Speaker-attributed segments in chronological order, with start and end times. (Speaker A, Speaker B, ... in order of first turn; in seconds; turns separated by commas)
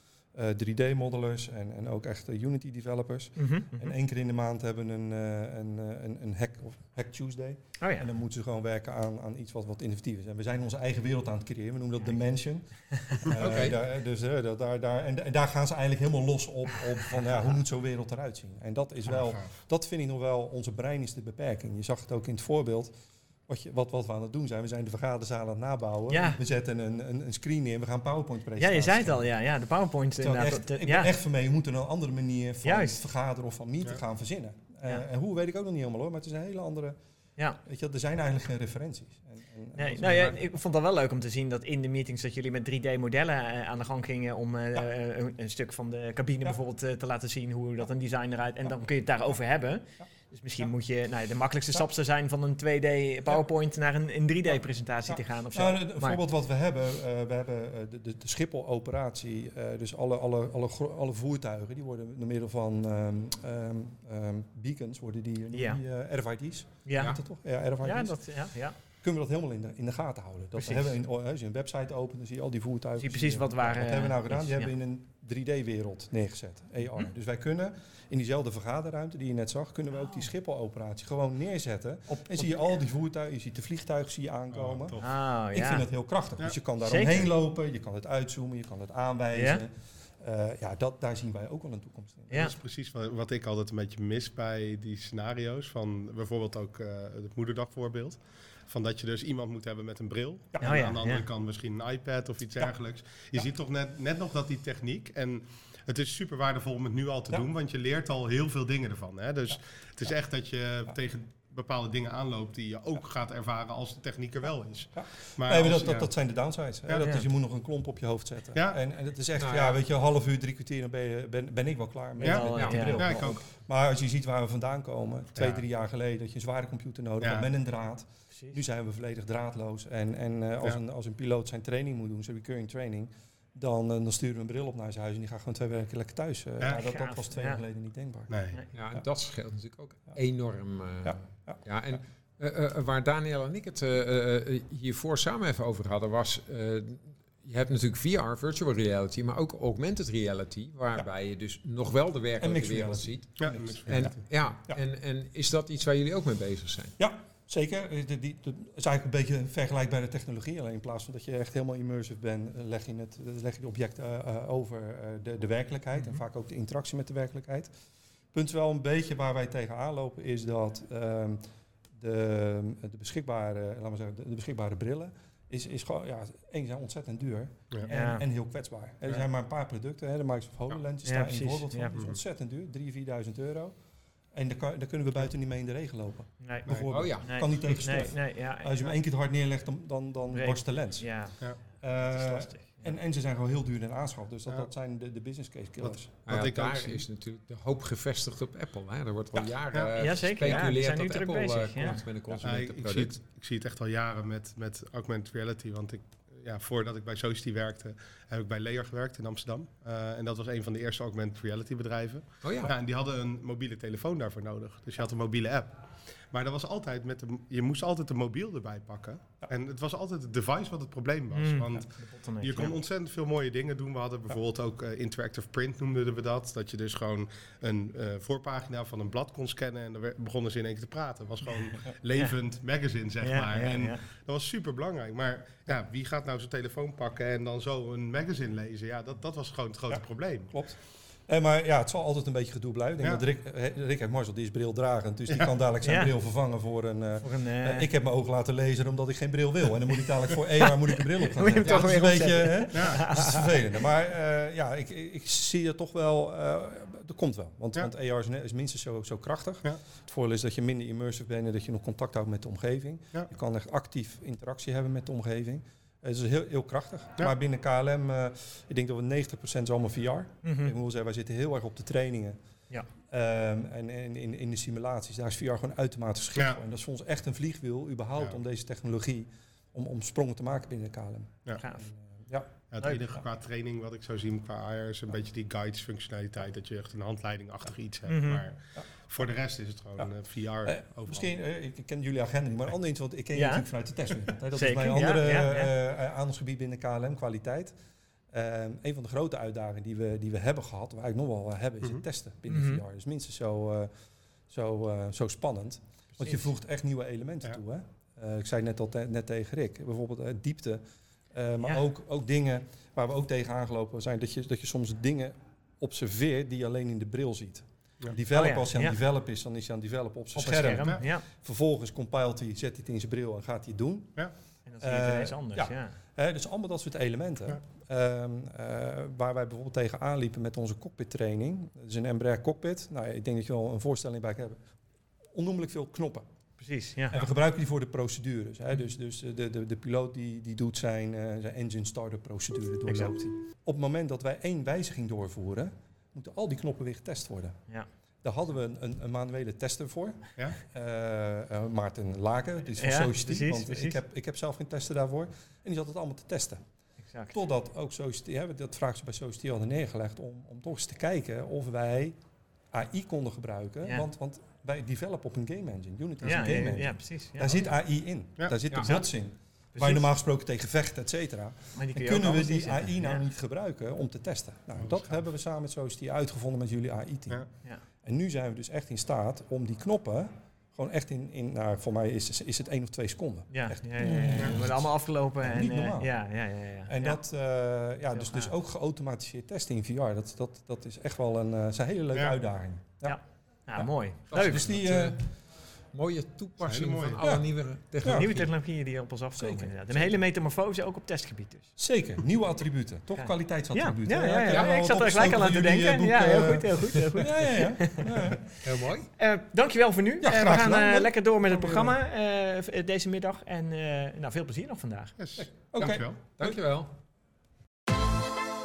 Speaker A: 0.3-22.9, Speaker B: 3.4-4.0, Speaker B: 7.8-8.1, Speaker C: 13.4-13.8, Speaker D: 19.1-19.5, Speaker A: 23.5-29.3, Speaker B: 26.1-26.4, Speaker B: 28.6-31.1, Speaker A: 30.2-37.0, Speaker B: 32.6-33.0, Speaker A: 37.6-40.6, Speaker B: 39.8-56.2, Speaker A: 55.1-68.3, Speaker B: 65.5-65.8, Speaker B: 66.9-67.2, Speaker B: 67.8-68.8, Speaker A: 69.0-92.5, Speaker B: 70.5-70.9, Speaker B: 73.0-74.7, Speaker B: 79.9-80.3, Speaker B: 82.1-82.7, Speaker D: 84.5-85.0, Speaker B: 85.0-85.8, Speaker B: 86.8-87.3, Speaker B: 89.3-89.6, Speaker D: 92.3-116.1, Speaker A: 100.5-101.0, Speaker B: 100.6-101.3, Speaker A: 115.0-138.3, Speaker C: 119.4-119.8, Speaker B: 122.2-123.4, Speaker D: 122.2-123.4, Speaker C: 122.5-122.9, Speaker D: 125.4-125.6, Speaker D: 127.2-127.5, Speaker B: 136.7-137.6, Speaker D: 138.3-138.6, Speaker C: 138.7-156.9, Speaker A: 141.0-141.9, Speaker A: 152.4-154.8, Speaker D: 153.4-154.2, Speaker A: 157.0-167.7, Speaker A: 168.3-171.4, Speaker A: 172.0-183.8, Speaker B: 177.9-178.2, Speaker B: 181.1-182.0, Speaker A: 184.3-196.2, Speaker B: 186.4-186.7, Speaker C: 186.9-187.3, Speaker B: 187.2-189.0, Speaker B: 190.3-192.9, Speaker D: 195.8-197.0, Speaker C: 196.3-203.1, Speaker D: 199.4-199.9, Speaker B: 200.0-202.0, Speaker D: 202.4-215.8, Speaker C: 212.4-212.7, Speaker D: 216.3-240.5, Speaker B: 221.3-222.8, Speaker B: 233.2-234.0, Speaker A: 239.9-272.4, Speaker B: 245.8-246.1, Speaker B: 247.2-247.9, Speaker B: 251.3-253.5, Speaker D: 252.7-253.0, Speaker B: 270.4-270.7, Speaker A: 273.1-282.6, Speaker B: 281.6-281.9, Speaker D: 282.7-291.3, Speaker B: 282.8-283.1, Speaker B: 288.1-288.4, Speaker A: 290.6-297.8, Speaker B: 293.3-293.7, Speaker B: 294.5-295.7, Speaker A: 298.3-303.9, Speaker B: 302.5-302.8, Speaker A: 304.5-324.2, Speaker B: 306.2-306.4, Speaker B: 318.3-319.0, Speaker B: 320.4-321.2, Speaker B: 324.7-325.9, Speaker A: 324.8-334.6, Speaker A: 335.3-336.3, Speaker B: 336.6-337.2, Speaker A: 337.1-347.6, Speaker B: 342.9-343.1, Speaker A: 348.2-356.6, Speaker B: 352.8-354.0, Speaker B: 357.1-357.4, Speaker A: 357.3-362.2, Speaker A: 362.7-377.4, Speaker B: 366.2-367.7, Speaker B: 368.8-369.1, Speaker B: 369.7-370.1, Speaker B: 371.8-373.2, Speaker D: 374.8-375.2, Speaker A: 378.0-386.1, Speaker B: 383.5-387.2, Speaker A: 386.9-393.2, Speaker B: 388.1-388.5, Speaker B: 393.0-394.7, Speaker A: 393.8-395.2, Speaker C: 394.3-395.2, Speaker C: 395.9-398.5, Speaker D: 396.6-397.2, Speaker A: 397.2-397.5, Speaker A: 398.0-398.3, Speaker B: 398.1-401.7, Speaker A: 399.4-400.2, Speaker A: 401.8-408.5, Speaker B: 403.1-408.4, Speaker C: 408.7-409.1, Speaker B: 409.2-415.1, Speaker A: 410.2-411.9, Speaker D: 415.2-416.2, Speaker A: 415.4-416.6, Speaker C: 415.8-416.9